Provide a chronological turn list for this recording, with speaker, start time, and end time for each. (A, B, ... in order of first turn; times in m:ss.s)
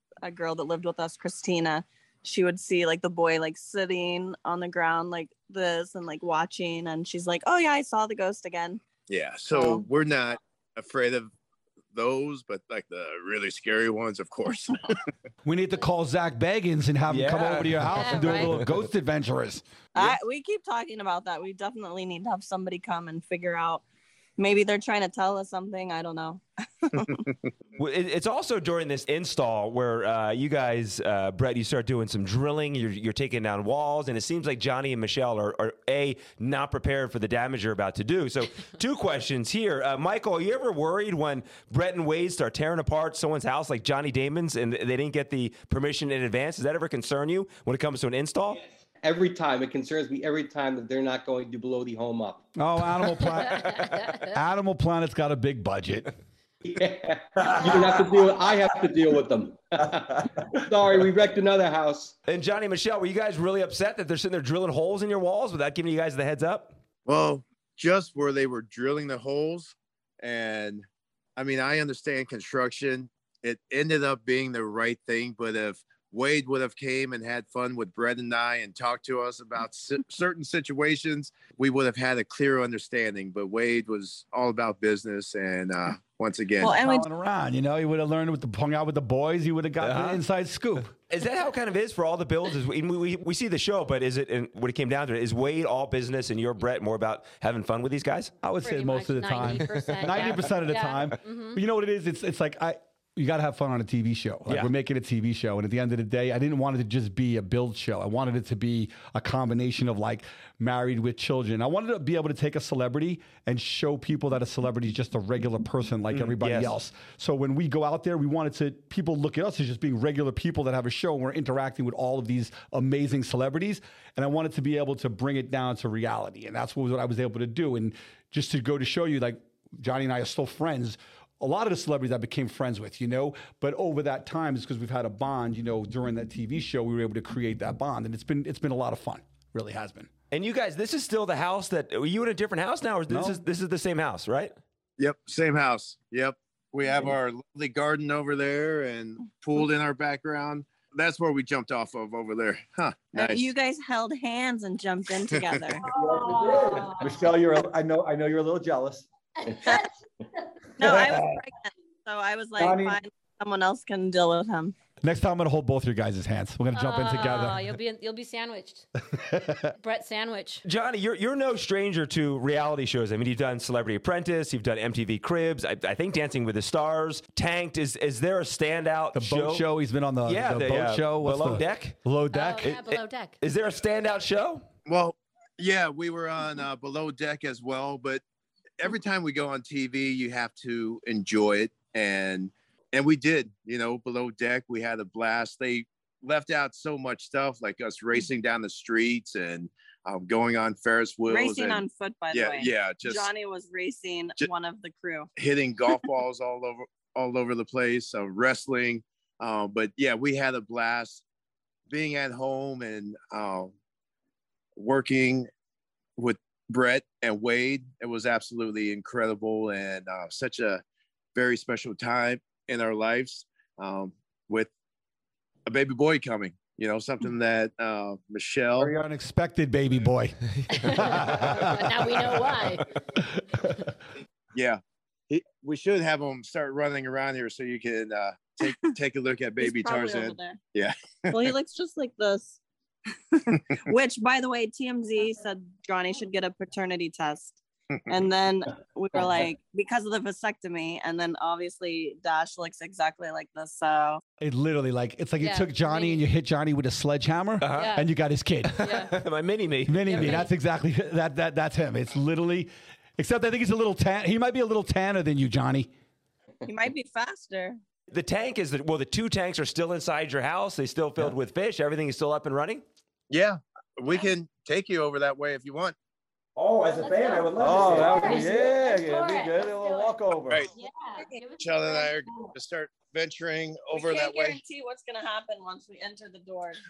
0:00.2-0:08.8 A
0:09.1-0:11.3 B
0:09.5-0:09.8 A
0:11.9-0:15.0 B
0:15.4-0:19.6 C
0:17.1-0:18.6 D
0:17.9-0:18.6 E
0:20.0-0:23.8 A
0:24.4-0:27.2 A
0:27.8-0:48.6 D
0:49.0-0:52.4 F
0:52.6-0:56.1 C
0:53.2-0:54.4 E
0:56.6-1:02.1 F
0:57.5-0:58.0 C
1:00.2-1:00.6 C
1:02.3-1:06.8 D
1:07.1-1:26.8 B
1:26.6-1:27.1 A
1:26.6-1:30.9 C
1:29.8-1:30.2 D
1:31.1-1:38.3 D
1:38.4-2:20.1 C
1:38.6-1:41.6 E
1:39.7-1:40.4 D
1:56.1-1:56.7 D
2:20.3-2:24.6 D
2:23.1-2:23.4 C
2:25.0-2:33.5 B
2:33.1-2:35.9 A
2:35.3-2:35.6 B
2:35.9-2:37.2 E
2:35.9-2:39.1 C
2:39.4-2:40.6 E
2:40.8-2:44.7 A
2:40.8-2:41.4 C
2:42.6-2:43.0 C
2:45.0-2:47.7 C
2:46.7-2:48.9 E
2:49.1-2:49.7 C
2:49.7-2:50.6 E
2:50.6-2:59.7 D
2:59.1-3:02.8 C
3:00.3-3:02.0 D
3:02.3-3:03.4 E
3:02.6-3:04.6 D
3:04.9-3:08.2 B
3:08.8-3:23.3 B
3:21.3-3:25.3 A
3:25.4-3:31.2 B
3:31.9-3:33.7 B
3:34.8-3:35.5 B
3:36.2-3:40.8 B
3:41.4-3:44.7 B
3:45.7-3:48.9 B
3:48.8-3:52.6 C
3:50.7-3:52.9 E
3:53.1-3:53.9 C
3:54.5-4:01.5 B
3:59.6-4:00.6 A
4:01.3-4:02.6 A
4:03.3-4:14.2 A
4:14.4-4:18.8 C
4:15.4-4:16.2 E
4:17.6-4:17.9 D
4:17.8-4:18.1 E
4:18.6-4:20.5 D
4:18.8-4:19.2 E
4:19.9-4:25.9 C
4:20.1-4:20.5 E
4:26.6-4:27.8 A
4:28.1-4:32.8 D
4:33.3-4:36.0 B
4:36.6-4:38.6 D
4:37.0-4:40.2 E
4:37.6-4:40.7 C
4:40.7-4:42.5 E
4:41.6-4:44.6 B
4:43.9-4:46.8 A